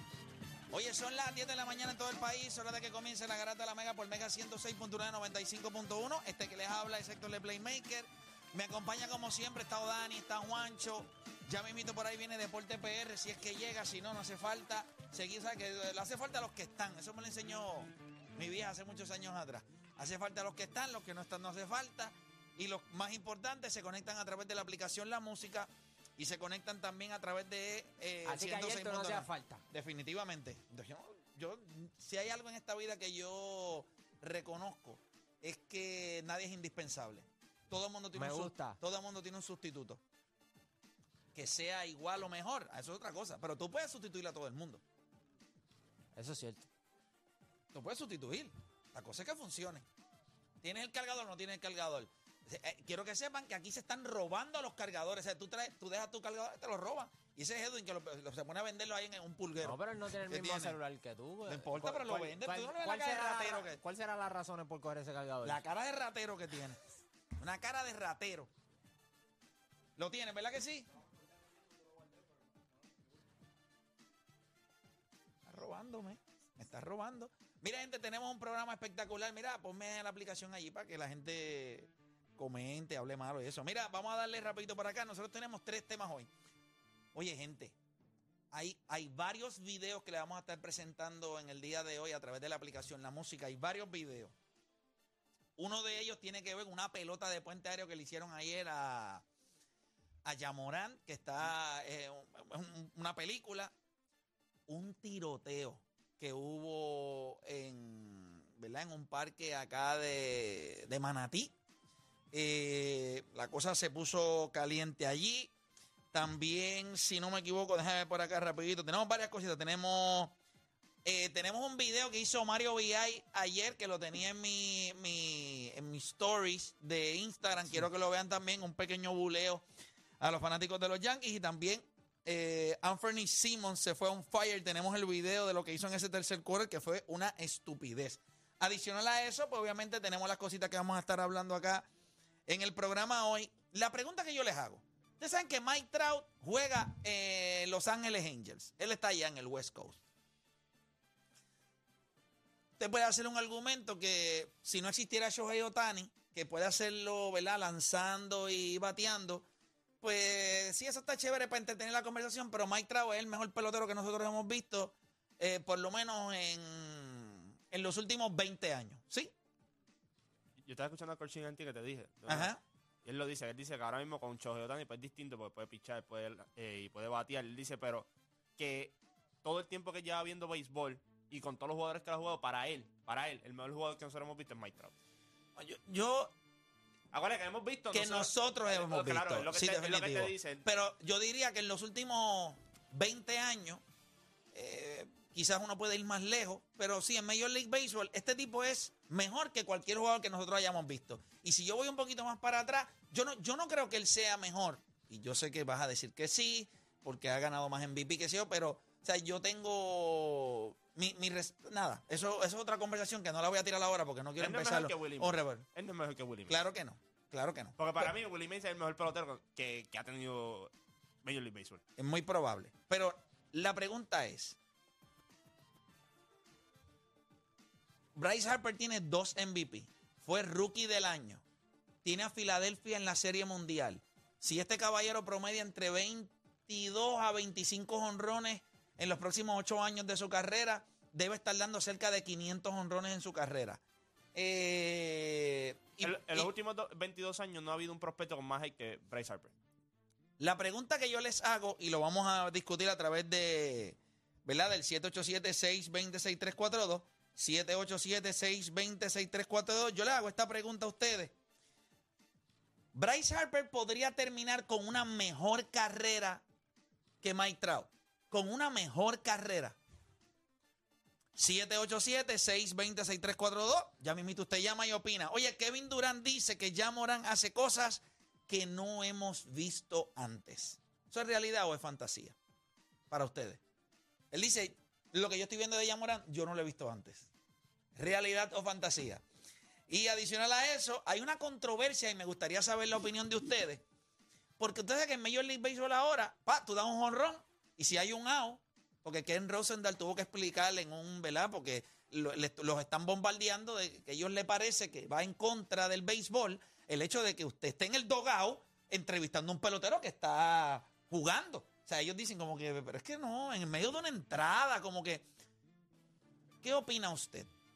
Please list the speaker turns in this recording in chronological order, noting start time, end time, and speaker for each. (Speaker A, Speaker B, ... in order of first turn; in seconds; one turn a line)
Speaker A: 0.7-40.0
Speaker B: 28.2-29.6
Speaker B: 38.1-38.8
Speaker A: 41.3-44.8
Speaker B: 46.1-46.6
Speaker A: 47.7-49.8
Speaker A: 50.6-60.8
Speaker B: 59.6-65.6
Speaker A: 61.5-63.8
Speaker A: 65.4-66.8
Speaker A: 67.4-68.5
Speaker A: 70.0-70.9
Speaker A: 75.5-86.3
Speaker A: 87.1-87.8
Speaker A: 88.5-94.3
Speaker A: 95.6-99.2
Speaker A: 100.2-103.7
Speaker A: 104.7-111.5
Speaker A: 112.3-115.5
Speaker A: 116.1-120.3
Speaker A: 121.0-129.6
Speaker A: 130.2-141.9
Speaker A: 142.5-150.0
Speaker A: 152.8-159.4
Speaker A: 160.0-169.3
Speaker C: 170.6-172.5
Speaker A: 172.3-172.6
Speaker C: 173.0-184.9
Speaker A: 185.6-186.3
Speaker C: 187.1-190.6
Speaker A: 187.9-193.8
Speaker A: 194.5-215.7
Speaker C: 214.4-216.6
Speaker A: 216.5-218.1
Speaker C: 217.8-220.7
Speaker C: 221.2-221.8
Speaker A: 222.0-224.6
Speaker A: 228.1-231.4
Speaker A: 232.0-243.8
Speaker A: 244.3-246.5
Speaker C: 246.0-249.5
Speaker A: 250.4-261.3
Speaker A: 262.9-266.4
Speaker A: 267.2-269.8
Speaker A: 271.4-282.4
Speaker A: 283.1-283.6
Speaker A: 284.3-287.3
Speaker A: 287.9-289.2
Speaker A: 289.9-293.8
Speaker A: 294.6-315.2
Speaker A: 316.6-317.5